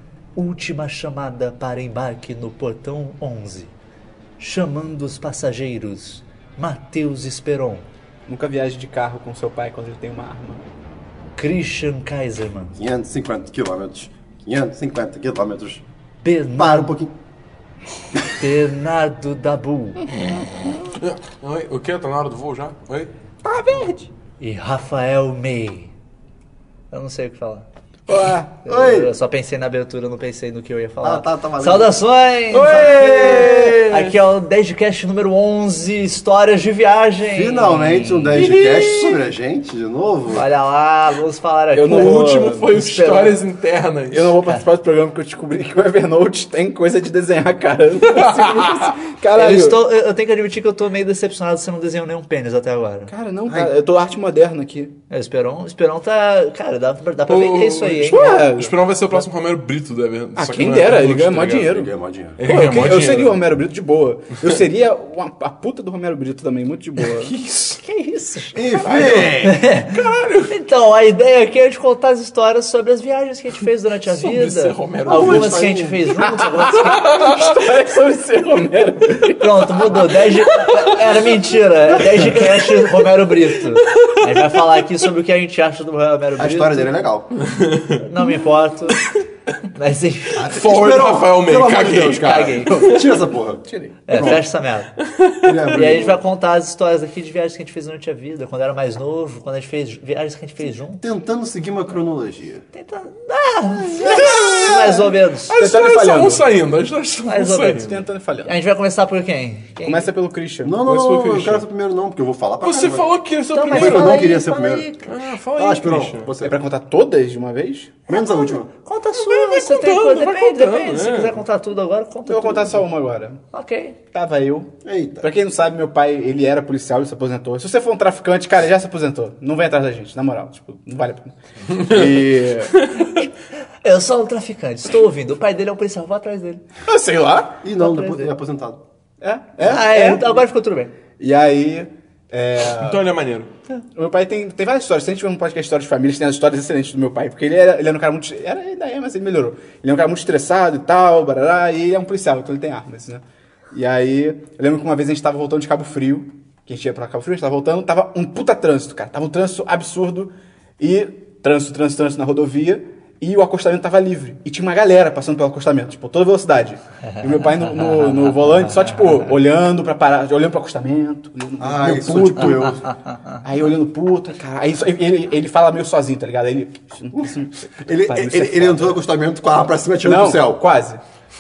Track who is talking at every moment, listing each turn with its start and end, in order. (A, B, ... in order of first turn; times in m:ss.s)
0:00.4-0:03.7 A
0:04.4-0:07.9 A
0:08.3-0:10.6 B
0:11.4-0:12.8 A
0:12.8-0:15.8 C
0:16.2-0:16.9 A
0:16.6-0:17.1 C
0:18.4-0:20.1 A
0:20.9-0:23.1 D
0:23.4-0:24.1 B
0:24.4-0:25.9 A
0:26.9-0:27.7 A
0:28.1-0:28.5 B
0:28.6-0:38.6 A
0:28.7-0:29.1 C
0:31.0-0:32.0 C
0:32.5-0:33.7 C
0:32.5-0:33.8 B
0:32.6-0:34.1 D
0:37.2-0:40.4 C
0:38.4-0:39.2 D
0:40.3-0:43.4 A
0:41.7-0:42.8 B
0:41.9-0:44.3 D
0:44.1-0:49.8 B
0:48.1-0:48.9 D
0:49.3-0:53.1 A
0:53.1-0:55.0 B
0:53.5-0:53.7 C
0:55.1-0:58.5 A
0:57.3-1:01.9 D
0:58.0-0:59.2 B
1:00.4-1:01.9 B
1:01.7-1:02.4 C
1:02.4-1:03.4 D
1:02.4-1:07.3 B
1:07.0-1:07.8 D
1:07.8-1:17.4 A
1:08.5-1:09.7 C
1:08.8-1:09.3 B
1:09.9-1:10.5 D
1:14.0-1:15.7 D
1:15.0-1:16.0 C
1:16.2-1:20.2 B
1:16.7-1:17.7 D
1:19.3-1:26.9 A
1:20.6-1:20.9 D
1:26.4-1:27.4 C
1:27.4-1:28.0 D
1:28.0-1:29.1 A
1:29.7-1:30.5 A
1:30.4-1:34.4 C
1:30.4-1:33.1 D
1:32.1-1:33.0 A
1:34.1-1:34.9 A
1:35.1-1:35.5 D
1:35.4-1:36.2 C
1:35.7-1:41.0 A
1:41.0-1:42.7 C
1:42.7-1:45.6 A
1:44.0-1:48.0 D
1:45.6-1:46.4 B
1:47.2-1:50.1 A
1:47.8-1:48.6 B
1:49.8-1:50.8 B
1:50.6-1:53.1 C
1:50.8-1:51.6 D
1:52.6-1:54.2 D
1:53.5-1:55.3 A
1:53.7-1:54.9 C
1:55.0-1:56.3 D
1:55.5-1:56.6 C
1:56.4-1:58.0 B
1:58.1-1:58.7 C
1:58.1-2:02.8 A
1:59.2-2:01.4 D
2:02.3-2:03.4 B
2:03.5-2:04.0 A
2:04.1-2:11.9 B
2:04.8-2:05.3 C
2:11.7-2:13.2 D
2:11.9-2:12.7 C
2:13.0-2:13.3 A
2:13.8-2:16.6 A
2:16.9-2:17.6 B
2:17.6-2:18.8 C
2:17.8-2:18.3 A
2:19.2-2:20.4 B
2:19.6-2:20.9 A
2:21.2-2:23.0 B
2:22.8-2:23.5 D
2:24.0-2:52.8 B
2:47.2-2:49.1 A
2:51.6-2:52.9 C
2:53.4-2:59.0 B
2:57.8-3:00.6 C
3:00.0-3:01.0 B